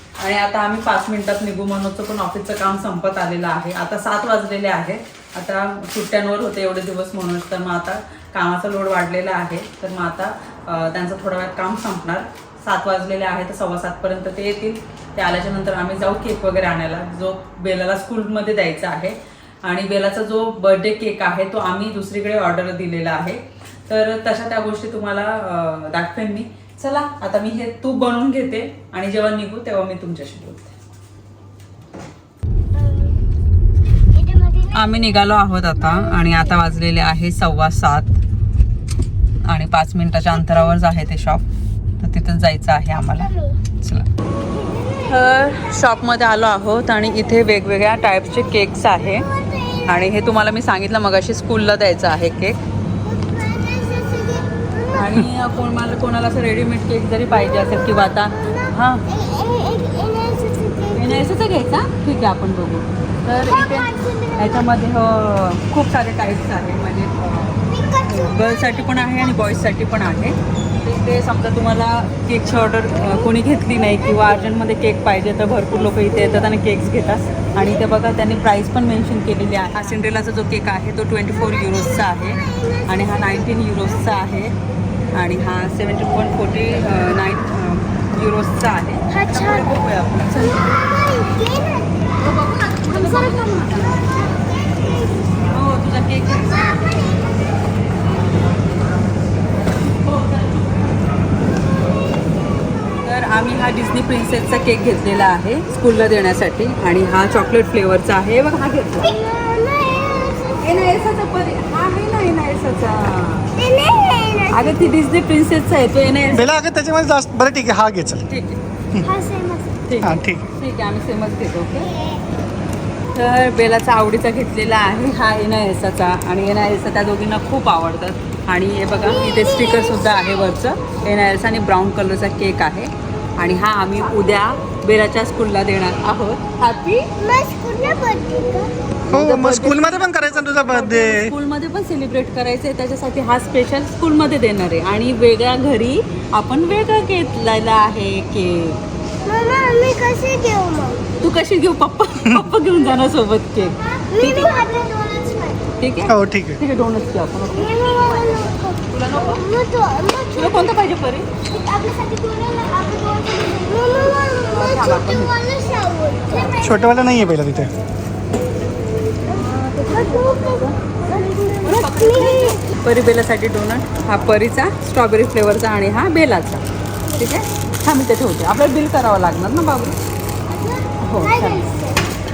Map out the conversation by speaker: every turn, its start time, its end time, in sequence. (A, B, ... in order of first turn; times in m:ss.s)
0:00.2-0:30.7 A
0:32.7-0:33.2 B
0:34.1-0:36.6 B
0:34.7-0:38.2 A
0:39.4-0:41.4 A
0:42.0-0:44.1 A
0:43.1-0:43.6 B
0:44.5-0:45.4 B
0:45.1-0:49.3 A
0:49.2-0:50.1 B
0:49.8-0:52.6 A
0:53.0-0:55.2 B
0:54.9-0:59.0 A
0:57.5-1:01.3 B
1:00.9-1:24.5 A
1:03.4-1:04.7 B
1:07.7-1:09.6 B
1:13.0-1:14.5 B
1:21.4-1:24.2 B
1:25.1-1:30.8 A
1:29.1-1:29.8 B
1:30.4-1:32.4 B
1:32.2-1:34.0 A
1:32.9-1:35.4 B
1:35.5-1:36.8 A
1:36.4-1:37.6 B
1:39.8-1:40.6 A
1:43.0-1:49.2 A
1:49.0-1:50.9 B
1:50.6-1:53.5 A
1:53.5-1:55.0 B
1:54.5-1:56.6 A
1:56.4-1:58.2 C
1:58.3-1:58.6 A
1:59.0-1:59.8 B
1:59.9-2:01.9 A
2:00.0-2:00.4 C
2:03.1-2:17.1 A
2:09.0-2:10.5 B
2:17.2-2:18.7 B
2:19.1-2:21.3 C
2:19.1-2:28.8 A
2:29.2-2:31.0 B
2:31.2-2:34.6 A
2:34.0-2:35.7 B
2:35.8-2:39.4 A
2:36.1-2:36.6 C
2:37.5-2:40.8 B
2:40.3-2:41.3 A
2:41.5-2:47.1 B
2:44.5-2:45.4 A
2:46.6-2:47.7 C
2:49.3-2:50.8 A
2:49.3-2:52.6 B
2:51.6-3:00.0 A
3:00.5-3:02.1 B
3:01.0-3:01.7 A